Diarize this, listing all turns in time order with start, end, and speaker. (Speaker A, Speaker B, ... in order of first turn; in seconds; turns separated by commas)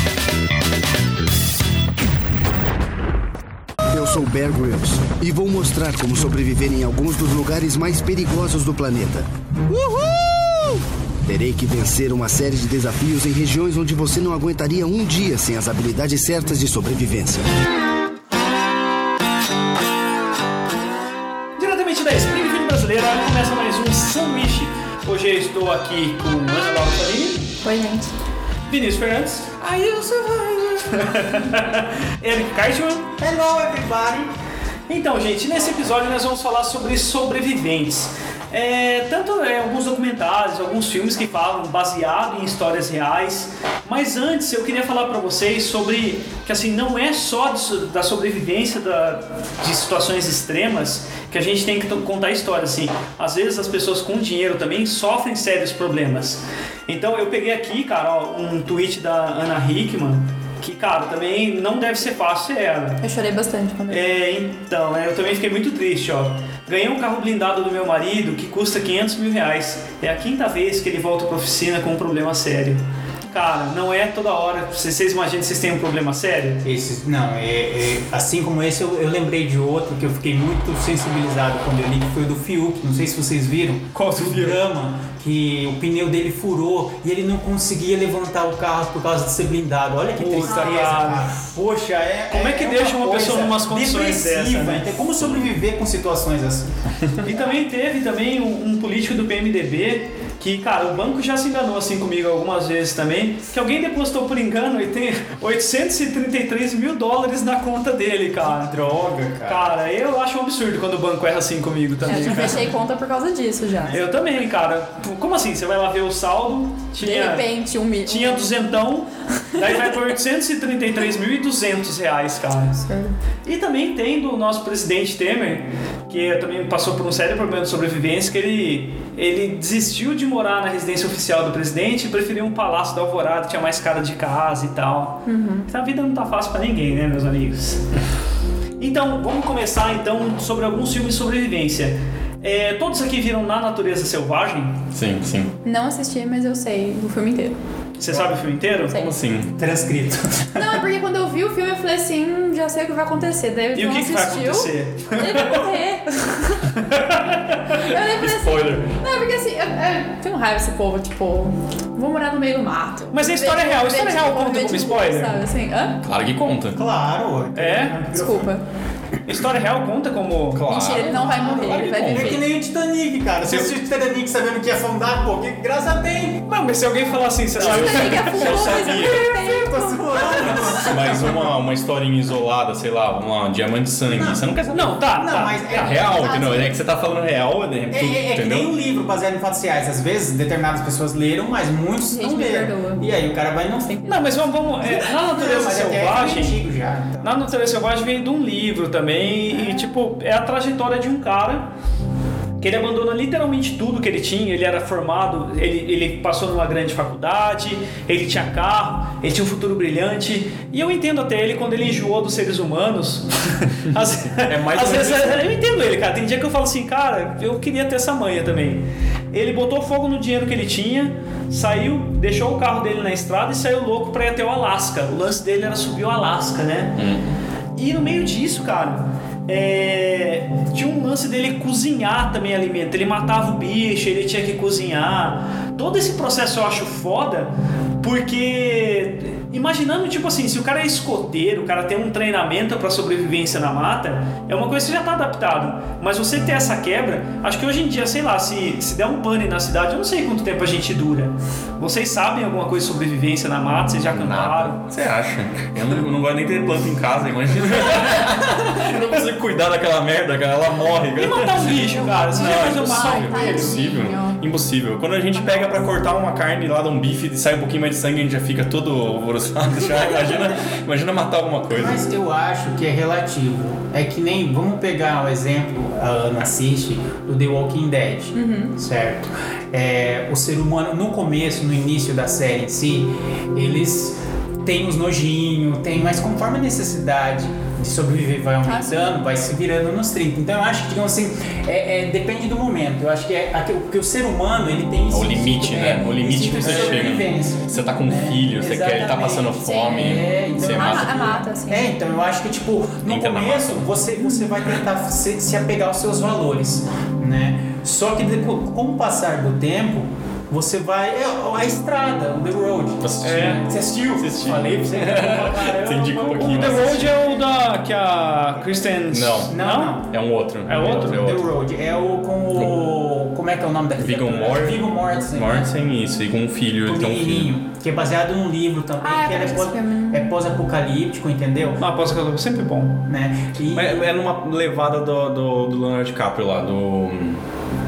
Speaker A: 3.9-17.5, Speaker B: 21.6-27.6, Speaker C: 27.6-28.1, Speaker B: 28.7-33.1, Speaker D: 33.2-34.3, Speaker B: 34.9-63.0, Speaker C: 63.0-64.0, Speaker B: 63.9-76.7, Speaker D: 76.6-96.8, Speaker B: 84.0-84.6, Speaker B: 90.2-91.3, Speaker C: 90.5-90.8, Speaker B: 92.3-95.0, Speaker B: 97.2-108.7, Speaker D: 108.4-109.8, Speaker B: 109.4-112.7, Speaker C: 112.1-114.0, Speaker D: 113.8-114.2, Speaker B: 113.9-117.5, Speaker C: 117.0-118.5, Speaker B: 118.1-122.8, Speaker C: 122.8-123.1, Speaker B: 123.5-137.9, Speaker C: 135.3-135.7, Speaker B: 138.8-144.8, Speaker E: 144.9-145.5, Speaker C: 145.7-147.6, Speaker B: 148.0-148.9, Speaker D: 148.1-148.4, Speaker E: 148.9-149.5, Speaker D: 149.6-150.8, Speaker C: 150.6-156.7, Speaker B: 153.8-155.7, Speaker B: 156.7-157.7, Speaker C: 157.8-166.0, Speaker E: 157.8-158.9, Speaker B: 163.1-165.3, Speaker E: 166.0-166.8, Speaker D: 166.7-168.5, Speaker B: 167.6-168.0, Speaker C: 168.1-168.6, Speaker B: 169.3-170.7, Speaker E: 170.5-172.4, Speaker C: 170.7-172.4, Speaker D: 170.9-176.5, Speaker B: 176.5-179.3, Speaker E: 177.6-179.4, Speaker C: 177.6-180.9, Speaker D: 179.0-181.5, Speaker E: 180.5-185.0, Speaker D: 184.1-186.7, Speaker B: 184.7-186.2, Speaker E: 185.7-188.7, Speaker C: 186.2-186.7, Speaker D: 187.9-194.2, Speaker C: 192.1-193.1, Speaker B: 194.1-196.6, Speaker D: 194.8-197.5, Speaker B: 197.2-201.7, Speaker C: 199.5-199.9, Speaker B: 202.6-227.0, Speaker E: 214.4-215.5, Speaker E: 227.0-227.4, Speaker B: 227.8-254.9, Speaker E: 254.1-272.0, Speaker B: 261.2-263.8, Speaker C: 261.8-264.4, Speaker D: 271.7-317.7, Speaker C: 278.3-278.8, Speaker C: 288.6-289.1, Speaker E: 295.1-301.4, Speaker B: 296.6-297.0, Speaker C: 299.4-299.9, Speaker C: 300.6-301.9, Speaker E: 303.1-303.9, Speaker C: 304.2-304.5, Speaker E: 313.0-317.1, Speaker B: 313.2-313.6, Speaker B: 316.3-320.0, Speaker E: 319.1-319.6, Speaker D: 319.5-320.2, Speaker E: 320.1-321.5, Speaker B: 320.7-321.3, Speaker D: 320.7-325.7, Speaker E: 324.0-327.5, Speaker D: 326.8-331.8, Speaker C: 329.0-330.3, Speaker B: 331.8-333.0, Speaker D: 333.1-334.1, Speaker E: 333.7-337.4